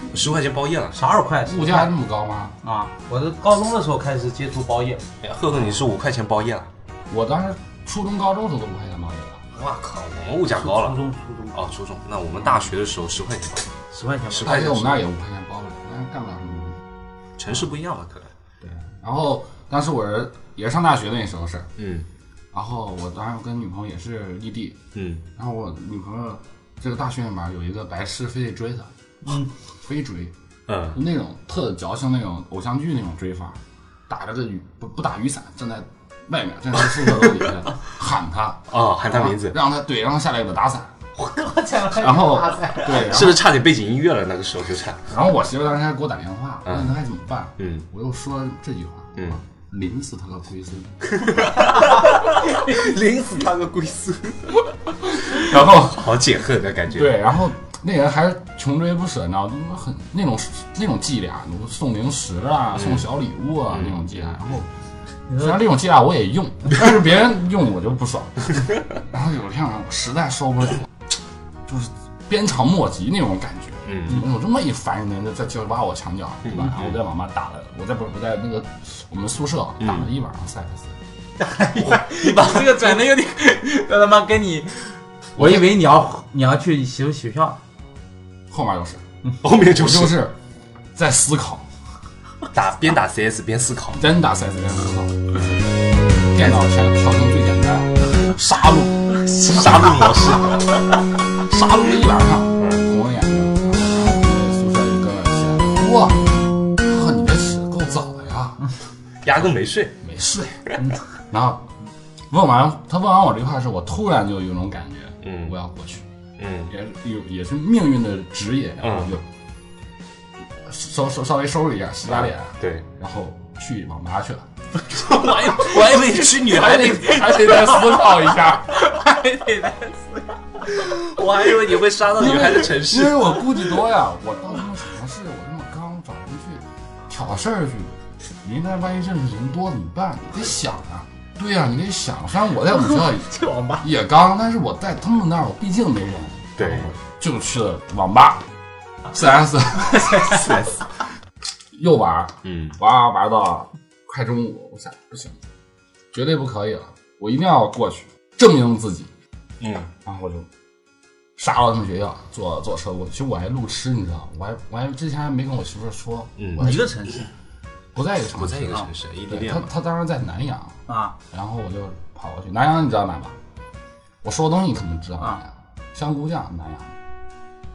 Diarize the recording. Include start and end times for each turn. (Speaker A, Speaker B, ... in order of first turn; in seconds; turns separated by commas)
Speaker A: 0.1-1.0, Speaker B: 0.9-1.9, Speaker C: 1.4-2.6, Speaker B: 2.6-5.0, Speaker A: 5.2-6.7, Speaker C: 7.1-9.4, Speaker A: 9.5-11.0, Speaker B: 10.5-11.6, Speaker A: 11.5-13.7, Speaker B: 13.9-15.0, Speaker A: 14.3-15.0, Speaker C: 14.4-16.8, Speaker A: 17.4-18.3, Speaker C: 18.6-21.7, Speaker A: 21.8-22.1, Speaker C: 22.5-24.8, Speaker A: 24.9-25.2, Speaker C: 25.4-28.9, Speaker B: 29.2-29.5, Speaker C: 29.8-30.3, Speaker A: 30.7-31.0, Speaker C: 30.9-41.0, Speaker A: 37.0-37.5, Speaker A: 38.7-39.6, Speaker B: 41.2-43.0, Speaker C: 41.9-43.5, Speaker A: 42.9-45.1, Speaker C: 45.1-51.1, Speaker A: 46.6-46.9, Speaker A: 47.6-47.9, Speaker A: 51.1-57.3, Speaker C: 55.3-56.0, Speaker C: 56.9-64.7, Speaker A: 62.7-63.1, Speaker A: 63.7-64.6, Speaker B: 65.3-65.5, Speaker C: 65.3-70.8, Speaker C: 71.7-81.0, Speaker A: 73.9-74.2, Speaker A: 76.5-77.0, Speaker A: 79.8-80.1, Speaker B: 81.4-87.6, Speaker A: 81.8-83.0, Speaker C: 88.5-89.0, Speaker A: 89.4-90.2, Speaker C: 89.7-90.4, Speaker C: 90.9-91.7, Speaker A: 92.5-94.0, Speaker C: 93.9-95.5, Speaker C: 96.3-100.1, Speaker A: 99.4-100.8, Speaker C: 101.4-108.6, Speaker A: 102.6-102.8, Speaker A: 109.2-110.0, Speaker C: 110.0-110.7, Speaker C: 111.3-111.7, Speaker C: 112.3-116.0, Speaker A: 115.2-115.5, Speaker A: 116.4-116.7, Speaker C: 116.7-119.2, Speaker A: 118.8-119.2, Speaker C: 120.6-124.5, Speaker A: 122.1-122.8, Speaker A: 124.9-127.7, Speaker C: 126.4-128.9, Speaker B: 128.7-130.3, Speaker A: 130.7-133.4, Speaker C: 132.1-148.4, Speaker B: 142.9-143.8, Speaker A: 146.6-146.9, Speaker C: 149.1-150.5, Speaker A: 150.3-150.8, Speaker C: 151.7-155.4, Speaker A: 152.4-152.8, Speaker C: 156.1-159.1, Speaker A: 159.6-159.9, Speaker C: 160.0-160.5, Speaker C: 161.4-166.8, Speaker A: 166.4-166.7, Speaker B: 166.6-167.2, Speaker C: 167.9-170.8, Speaker A: 168.3-169.7, Speaker B: 170.9-171.1, Speaker C: 171.3-173.4, Speaker C: 174.2-176.9